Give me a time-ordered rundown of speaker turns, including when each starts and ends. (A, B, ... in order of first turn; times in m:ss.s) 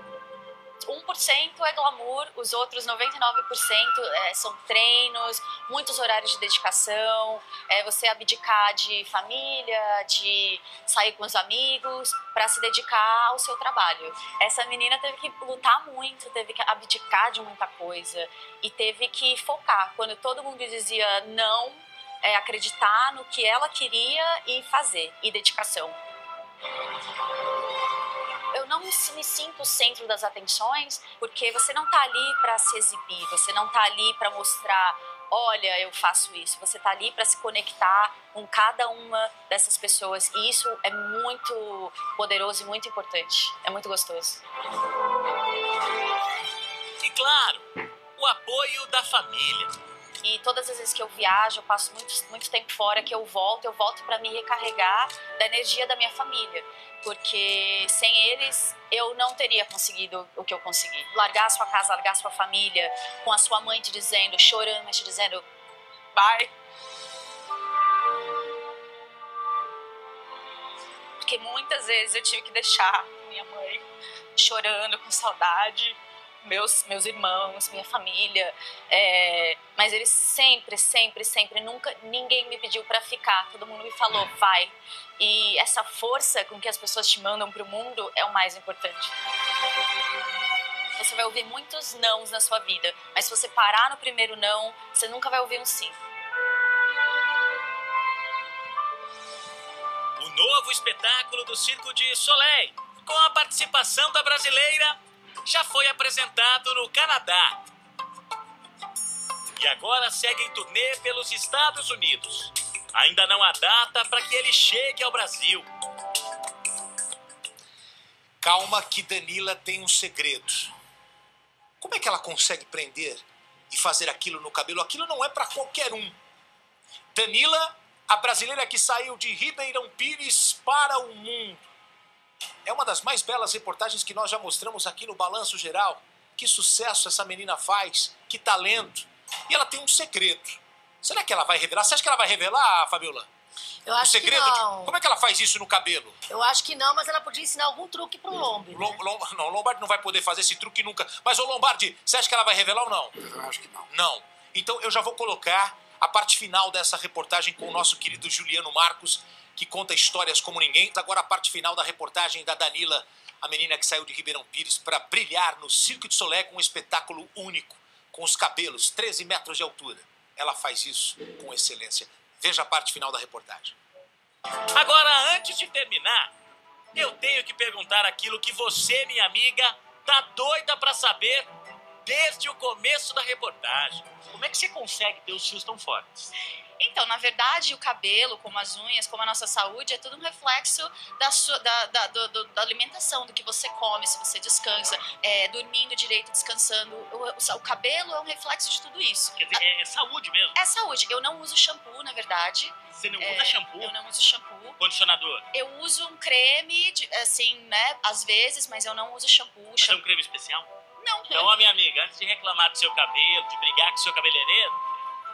0:00.8-0:26.0 A
0:28.5-0:44.4 A
0:47.0-0:49.7 B
0:50.2-1:05.4 A
1:06.1-1:06.5 A
1:11.2-1:29.1 A
1:30.9-1:36.0 A
1:40.2-1:47.6 B
1:49.6-1:55.7 B
1:58.4-2:00.7 C
2:01.8-2:06.2 C
2:07.1-2:11.6 C
2:12.6-2:23.3 C
2:23.8-2:24.9 D
2:24.0-2:26.2 C
2:26.3-2:29.0 D
2:28.7-2:33.2 C
2:33.4-2:33.8 D
2:33.9-2:53.7 C
2:54.7-2:56.3 B
2:56.9-3:01.5 B
3:02.0-3:06.3 B
3:06.8-3:19.4 A
3:19.4-3:20.5 B
3:20.5-3:24.8 A
3:22.9-3:23.9 B
3:24.8-3:25.5 B
3:25.5-3:30.0 A
3:29.8-3:30.7 B
3:31.0-3:31.7 A
3:31.3-3:35.0 B